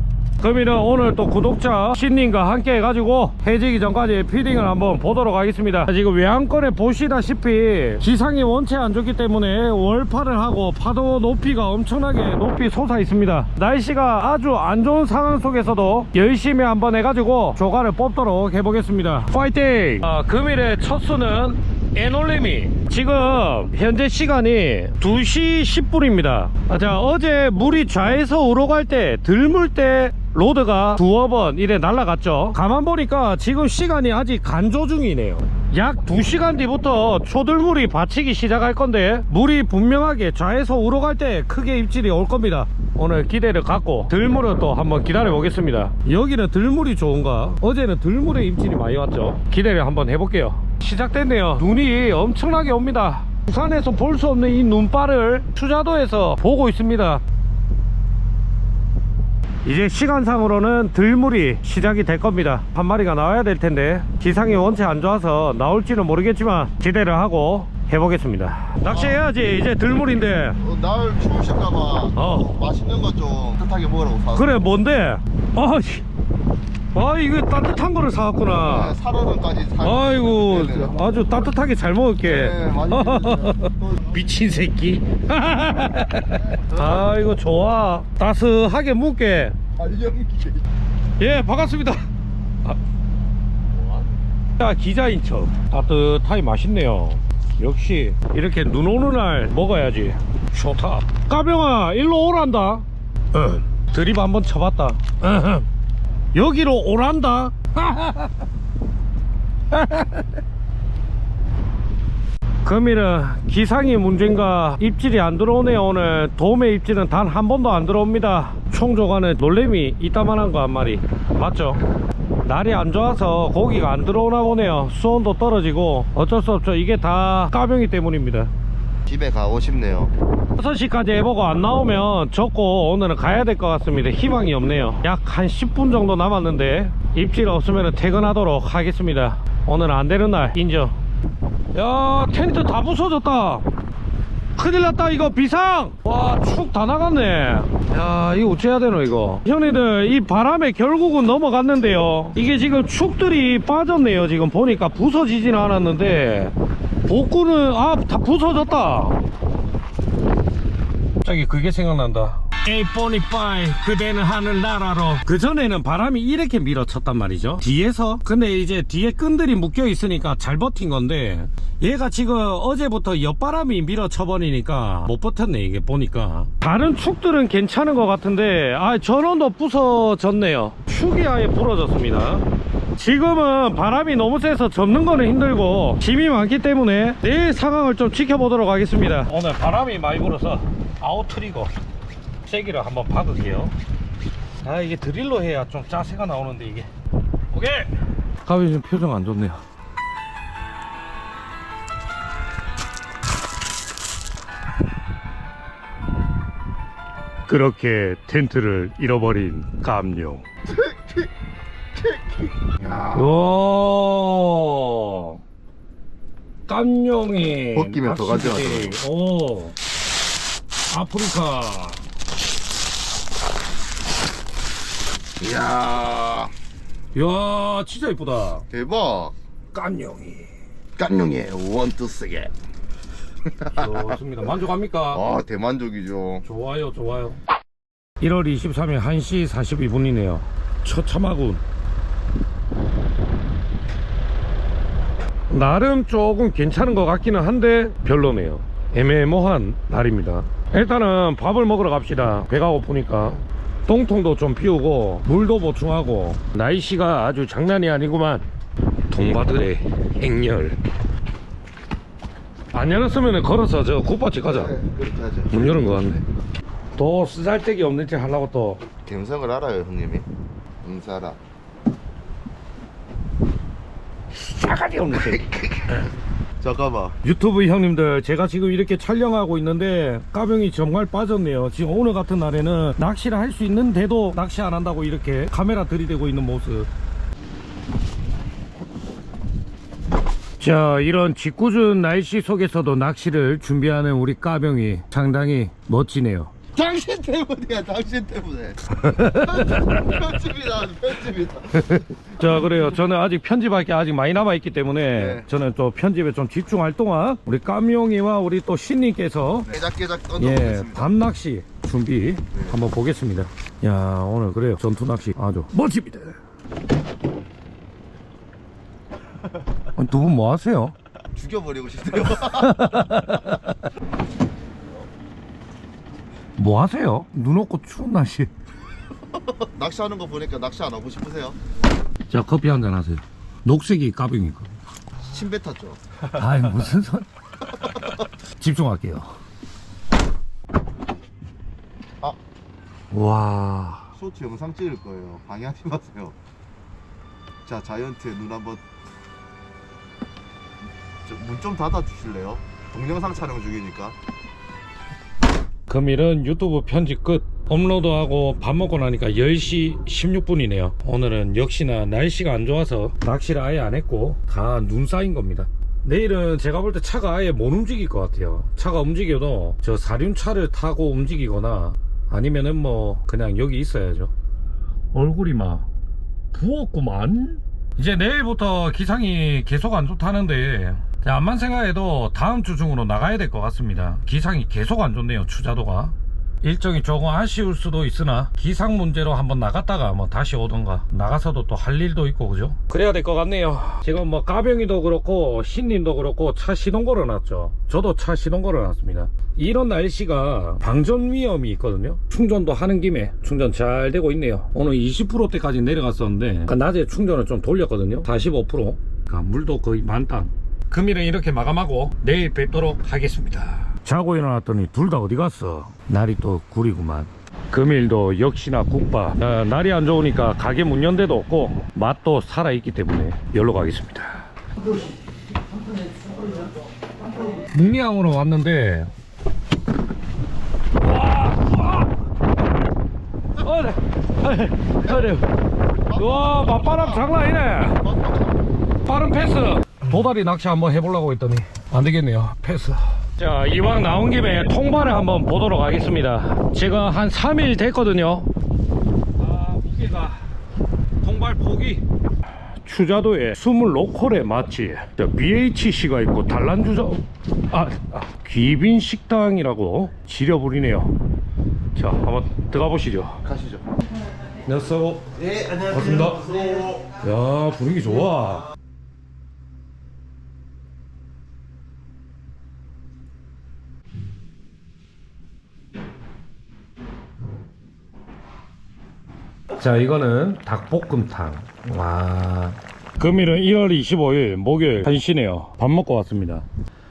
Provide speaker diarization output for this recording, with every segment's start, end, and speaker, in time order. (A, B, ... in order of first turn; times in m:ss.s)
0:00.4-0:57.2 A
0:59.6-1:10.6 A
1:08.8-1:09.3 B
1:10.6-1:14.7 B
1:12.1-1:12.5 A
1:14.3-1:16.0 A
1:16.9-1:19.0 A
1:18.6-1:21.2 B
1:19.8-1:29.6 A
1:22.2-1:24.1 B
1:26.4-1:27.2 B
1:29.8-1:30.6 B
1:31.2-1:32.0 A
1:33.7-1:34.2 B
1:34.6-1:45.7 A
1:46.3-1:48.4 A
1:49.7-1:50.3 A
1:52.6-2:01.8 A
2:02.4-2:08.5 A
2:09.1-2:10.1 B
2:10.6-2:21.0 A
2:21.7-2:23.6 A
2:24.6-2:36.5 A
2:37.0-2:39.2 A
2:41.2-3:02.4 A
3:03.0-3:11.7 A
3:12.4-3:13.7 A
3:14.6-3:16.9 A
3:17.5-3:17.9 A
3:18.4-3:19.6 A
3:27.5-3:30.4 A
3:30.6-3:31.3 B
3:32.0-3:33.2 B
3:33.1-3:35.4 A
3:36.7-3:39.8 A
3:37.7-3:39.0 B
3:40.9-3:42.0 A
3:45.4-3:46.5 B
3:47.1-3:48.6 A
3:48.6-3:49.3 B
3:49.7-3:50.5 A
3:51.0-3:52.5 B
3:53.4-3:54.2 B
3:53.7-3:55.2 A
3:55.1-3:56.4 B
3:56.4-3:57.4 A
3:58.2-4:01.6 A
4:05.5-4:18.4 A
4:19.1-4:20.8 A
4:22.7-4:24.8 A
4:24.4-4:26.0 B
4:25.5-4:26.2 A
4:27.0-4:28.8 A
4:29.0-4:30.3 B
4:30.8-4:31.4 B
4:34.3-4:35.5 A
4:35.1-4:36.1 B
4:36.6-4:37.2 B
4:37.2-4:46.9 A
4:50.6-4:56.5 A
4:56.7-5:01.8 B
4:59.0-5:00.1 A
5:01.7-5:09.7 A
5:05.1-5:05.5 B
5:09.6-5:11.1 B
5:10.4-5:16.4 A
5:12.5-5:12.8 B
5:20.0-5:20.9 A
5:21.3-5:23.3 B
5:22.4-5:23.7 A
5:26.6-5:28.5 A
5:29.3-5:31.6 B
5:32.3-5:34.7 A
5:35.2-5:36.0 B
5:36.3-5:37.3 A
5:38.6-5:39.4 A
5:43.1-5:44.1 A
5:44.1-5:46.4 B
5:47.6-5:48.8 B
5:51.2-5:54.2 B
5:55.9-6:14.3 A
6:15.1-6:15.9 A
6:16.5-7:04.5 A
7:07.5-7:09.1 A
7:11.0-7:12.1 A
7:13.6-7:15.5 A
7:16.0-7:18.6 B
7:16.1-7:18.0 A
7:19.0-7:28.5 A
7:29.4-7:30.4 A
7:31.2-7:32.0 A
7:32.8-7:41.1 A
7:41.9-7:43.4 A
7:43.4-7:43.8 B
7:44.6-7:48.7 A
7:46.6-7:47.0 B
7:59.8-8:06.6 A